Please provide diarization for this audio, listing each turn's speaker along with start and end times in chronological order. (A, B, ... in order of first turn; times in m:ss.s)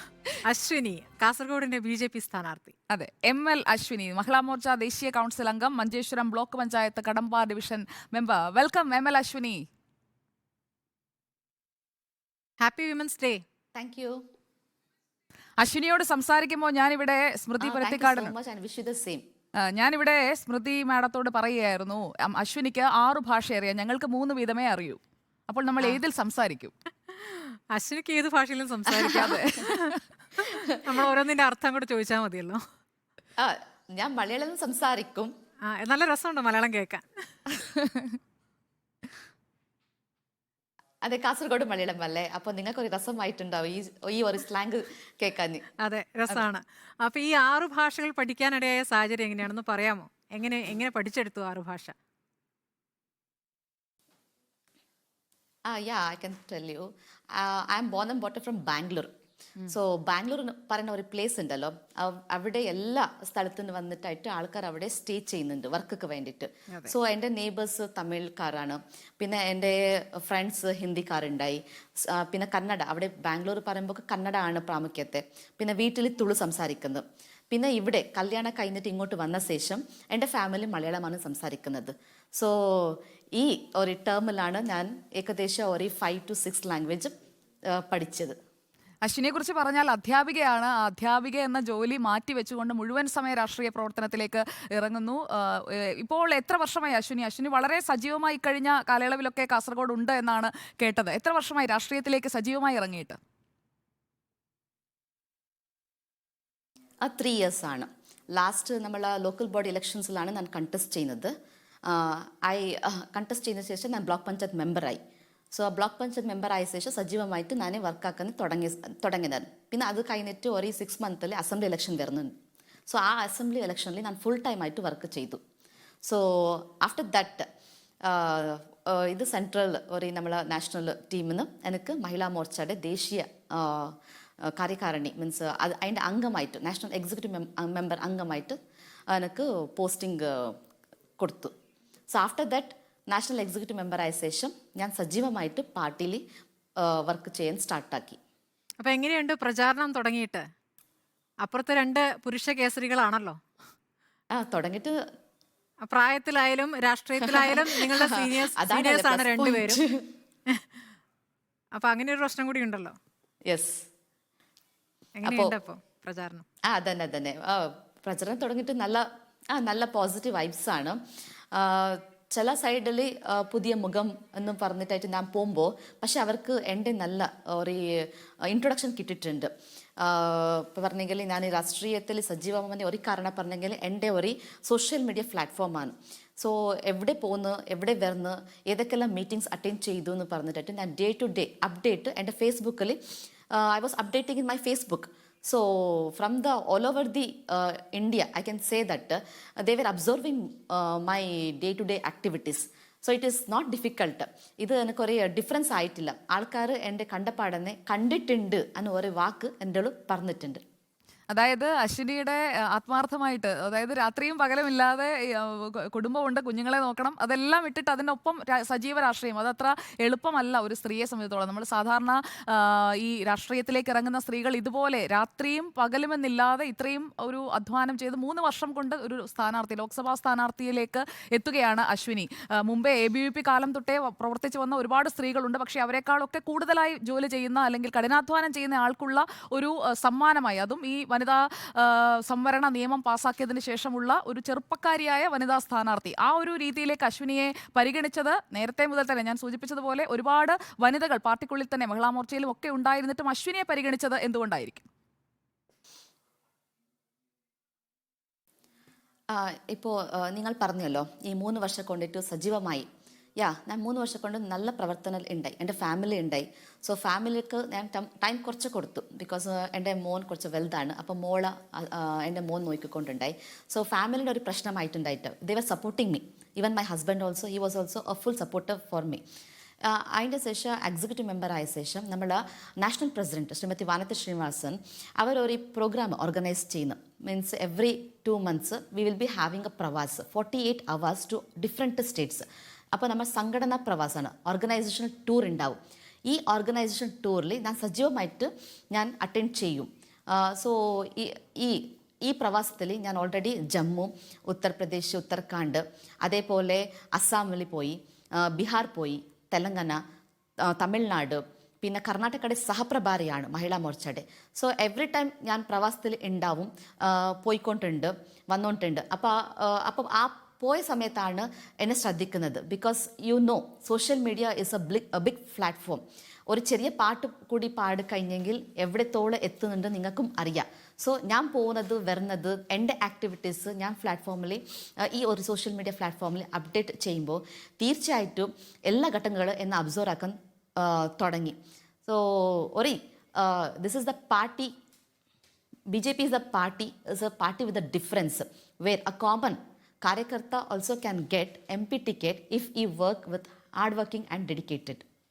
0:00.5-0:02.7 A
0:02.9-0:09.6 B
0:12.6-0:13.4 A
0:13.7-0:14.2 C
0:15.6-0:18.3 B
0:17.6-0:19.2 C
0:19.7-0:26.7 B
0:27.1-0:30.0 A
0:29.0-0:30.0 B
0:30.5-0:30.8 C
0:30.5-0:32.6 A
0:33.4-0:35.3 C
0:35.7-0:37.1 A
0:37.6-0:38.2 B
0:41.0-0:45.6 C
0:45.8-0:51.9 A
0:55.7-0:59.1 C
0:59.7-1:27.1 C
1:27.7-1:28.4 C
1:29.0-1:43.2 B
1:47.0-1:51.3 C
1:51.8-1:55.0 C
1:55.5-2:02.3 C
2:02.9-2:05.4 C
2:06.0-2:07.5 C
2:08.0-2:18.6 C
2:19.1-2:20.6 C
2:21.2-2:21.5 C
2:22.1-2:26.2 C
2:26.8-2:28.2 C
2:28.8-2:30.4 A
2:31.4-2:33.4 A
2:34.3-2:35.0 C
2:35.8-2:39.8 A
2:37.2-2:40.1 C
2:41.8-2:42.9 A
2:43.5-2:43.8 C
2:45.2-2:46.4 A
2:45.2-2:45.6 C
2:46.7-2:51.0 C
2:51.5-3:13.0 C
3:13.5-3:30.6 C
3:31.3-4:14.9 B
4:19.3-4:22.9 C
4:23.4-4:39.2 C
4:39.8-5:10.0 C
5:10.6-5:44.7 C
5:45.9-5:55.0 C